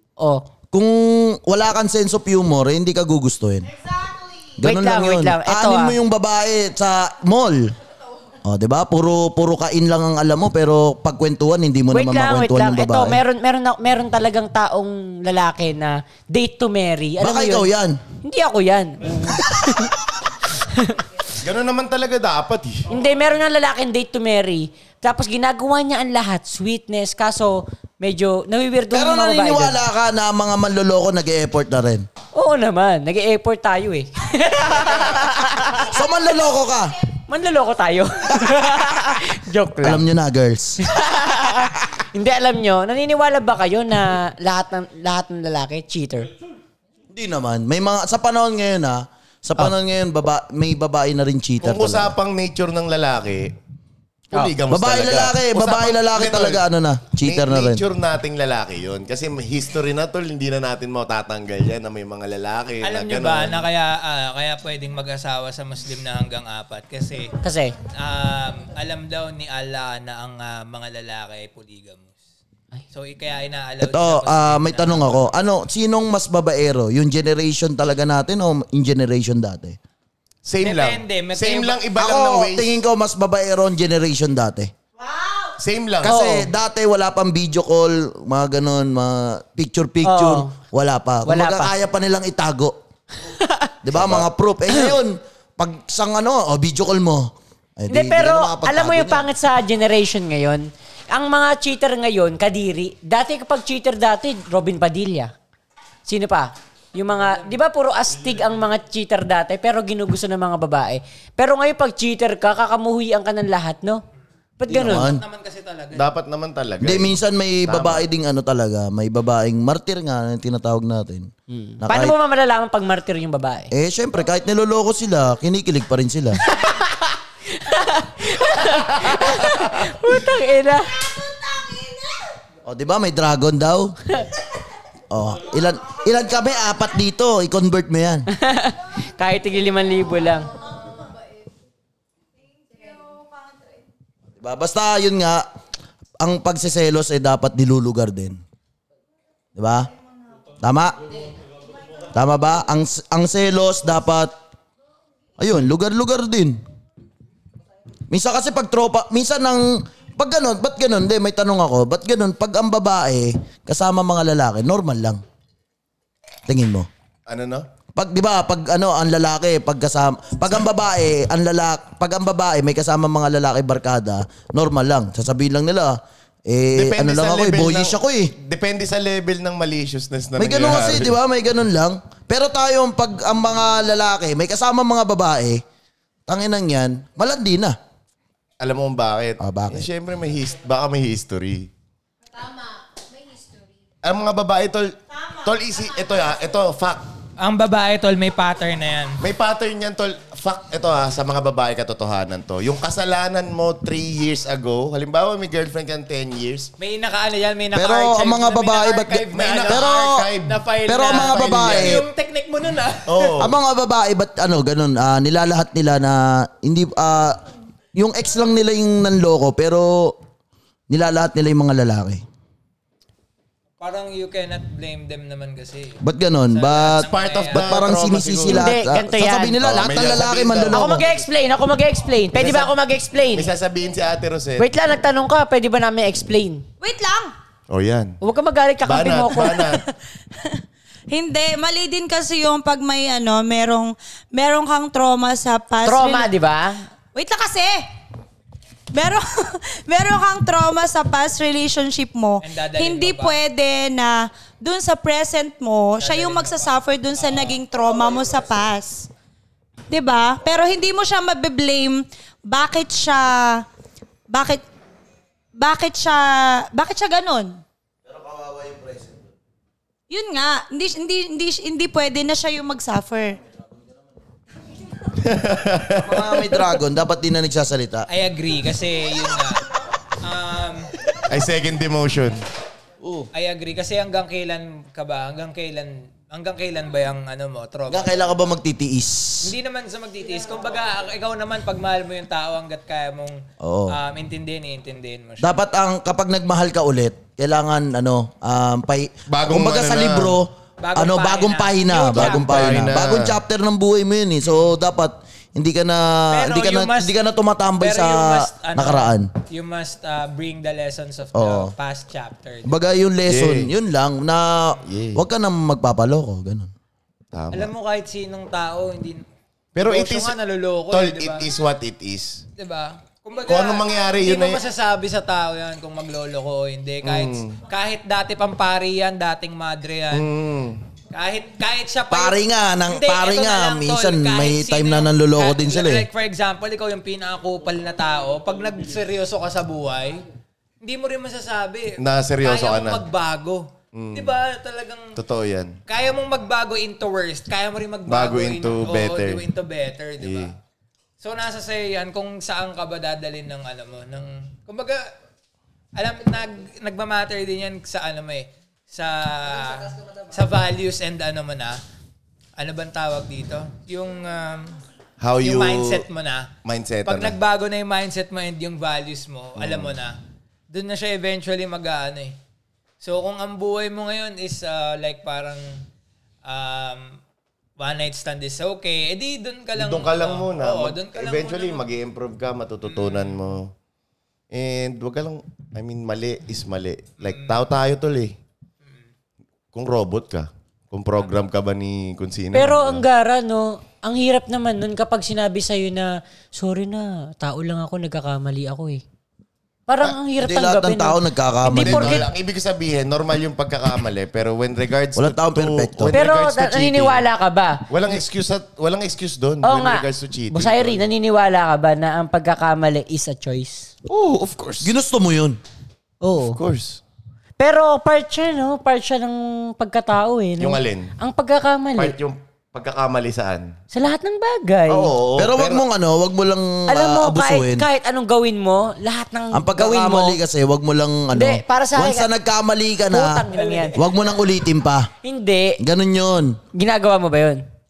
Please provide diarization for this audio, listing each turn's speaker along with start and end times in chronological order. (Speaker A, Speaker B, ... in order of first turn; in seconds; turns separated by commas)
Speaker A: 0.2-0.5, Speaker B: 0.7-3.7, Speaker C: 3.7-4.5, Speaker B: 4.6-7.7, Speaker A: 4.6-6.0, Speaker B: 8.4-13.2, Speaker A: 11.9-17.7, Speaker B: 17.2-18.0, Speaker A: 18.2-19.9, Speaker A: 20.6-21.0, Speaker D: 21.4-22.9, Speaker A: 22.9-29.8, Speaker B: 28.9-32.1, Speaker A: 32.3-35.9, Speaker B: 35.8-37.0, Speaker A: 37.3-40.0, Speaker B: 39.8-40.8, Speaker A: 40.8-46.3, Speaker B: 47.1-52.1, Speaker D: 51.6-53.5, Speaker D: 54.3-56.6, Speaker B: 54.7-57.8, Speaker D: 57.2-63.6, Speaker E: 62.8-67.3, Speaker A: 67.4-67.8, Speaker E: 67.9-72.2, Speaker E: 72.9-75.3, Speaker B: 73.8-79.8, Speaker D: 80.5-82.8, Speaker E: 80.6-81.8, Speaker B: 82.0-84.7, Speaker C: 85.0-85.5, Speaker D: 85.6-86.2, Speaker B: 86.0-92.8, Speaker A: 86.0-86.5, Speaker A: 90.0-90.5, Speaker A: 91.3-91.7, Speaker A: 93.2-93.8, Speaker B: 93.8-99.3, Speaker D: 93.9-94.3, Speaker A: 97.9-105.3, Speaker A: 106.1-114.0, Speaker A: 114.6-115.1, Speaker B: 114.7-115.2, Speaker E: 114.8-116.1, Speaker D: 115.9-118.0, Speaker B: 116.8-122.2, Speaker A: 121.5-123.7, Speaker B: 123.7-126.4, Speaker A: 126.5-131.1, Speaker B: 132.7-134.0, Speaker B: 135.1-138.3, Speaker A: 138.3-140.5, Speaker C: 142.6-143.7, Speaker B: 144.4-145.5, Speaker B: 146.2-148.4, Speaker B: 149.6-149.9, Speaker B: 150.6-151.1, Speaker B: 152.1-154.3, Speaker B: 155.4-156.6, Speaker B: 158.1-165.2, Speaker B: 166.5-166.9, Speaker D: 167.3-167.7, Speaker B: 167.9-178.3, Speaker D: 176.8-181.2, Speaker B: 180.4-185.6, Speaker B: 186.3-187.8, Speaker D: 188.6-191.7, Speaker B: 189.4-189.9, Speaker D: 194.0-197.0, Speaker E: 197.4-199.2, Speaker D: 199.2-206.7, Speaker E: 206.8-209.9, Speaker B: 207.7-210.3, Speaker D: 209.3-212.0, Speaker E: 210.5-213.4, Speaker B: 210.9-212.1, Speaker D: 213.1-213.6, Speaker B: 213.4-217.4, Speaker B: 217.9-220.2, Speaker B: 220.9-222.2, Speaker E: 223.8-226.0, Speaker B: 226.0-231.1, Speaker E: 226.5-227.9, Speaker D: 227.0-228.7, Speaker A: 228.5-229.6, Speaker D: 229.6-231.1, Speaker A: 230.7-233.5, Speaker D: 232.3-232.7, Speaker D: 233.3-234.7, Speaker A: 234.6-236.7, Speaker C: 236.8-237.3, Speaker D: 237.7-238.2, Speaker A: 238.2-239.7, Speaker D: 238.8-239.8, Speaker C: 241.1-246.3, Speaker A: 245.8-246.8, Speaker C: 247.2-247.9, Speaker C: 248.9-259.1, Speaker E: 252.4-253.4, Speaker E: 256.0-257.6, Speaker C: 259.9-263.6, Speaker C: 264.3-264.6, Speaker C: 265.6-267.6, Speaker B: 268.1-269.3, Speaker C: 270.1-273.4, Speaker D: 275.2-276.4, Speaker B: 276.0-278.1, Speaker E: 278.1-279.6, Speaker E: 280.2-280.9, Speaker D: 281.3-282.4, Speaker B: 283.0-283.3, Speaker E: 283.3-288.2, Speaker B: 287.9-289.5, Speaker E: 289.4-295.5, Speaker B: 293.6-294.0, Speaker B: 295.4-309.3, Speaker D: 299.3-300.4, Speaker E: 300.8-303.0, Speaker D: 302.1-303.4, Speaker E: 304.4-304.7, Speaker E: 306.3-307.1, Speaker E: 307.8-312.7, Speaker B: 311.4-311.7, Speaker B: 312.6-316.7, Speaker D: 313.3-313.7, Speaker D: 314.9-315.2, Speaker D: 317.3-317.7, Speaker E: 317.5-319.2, Speaker D: 319.8-320.3, Speaker E: 319.8-321.5, Speaker D: 320.9-322.4, Speaker E: 322.6-330.3, Speaker D: 323.5-324.6, Speaker D: 327.0-327.6, Speaker D: 330.1-330.8, Speaker E: 331.1-340.2, Speaker B: 332.1-336.1, Speaker E: 340.8-345.2, Speaker D: 342.0-343.1, Speaker D: 343.9-344.4, Speaker D: 345.2-345.8, Speaker E: 345.9-350.6, Speaker D: 348.1-349.4, Speaker D: 350.2-350.5, Speaker E: 351.2-355.1, Speaker E: 356.0-361.8, Speaker E: 362.6-364.8, Speaker D: 365.2-366.0, Speaker E: 365.4-366.5, Speaker D: 366.6-367.4, Speaker E: 367.1-370.2, Speaker D: 369.6-369.9, Speaker E: 370.7-372.4, Speaker E: 373.0-375.8, Speaker E: 376.4-377.2, Speaker E: 377.8-381.9, Speaker D: 379.8-383.7, Speaker E: 382.9-383.4, Speaker D: 384.5-388.4, Speaker E: 387.2-387.6, Speaker D: 389.7-393.1, Speaker A: 392.5-399.0, Speaker A: 399.9-402.3, Speaker B: 400.4-402.3, Speaker D: 401.7-407.2, Speaker B: 405.2-406.2, Speaker A: 406.1-407.9, Speaker D: 407.9-411.0, Speaker A: 409.6-413.9, Speaker D: 414.1-414.9, Speaker B: 414.8-415.6, Speaker A: 416.2-416.6, Speaker D: 416.5-417.0, Speaker A: 417.6-422.2, Speaker D: 420.6-421.1, Speaker D: 422.0-423.8, Speaker A: 423.9-425.1, Speaker D: 424.9-425.8, Speaker B: 425.4-427.9, Speaker A: 426.9-430.4, Speaker B: 429.5-435.1, Speaker A: 431.3-432.3, Speaker A: 433.1-434.0, Speaker A: 435.2-435.8, Speaker B: 435.8-436.6, Speaker A: 436.7-437.6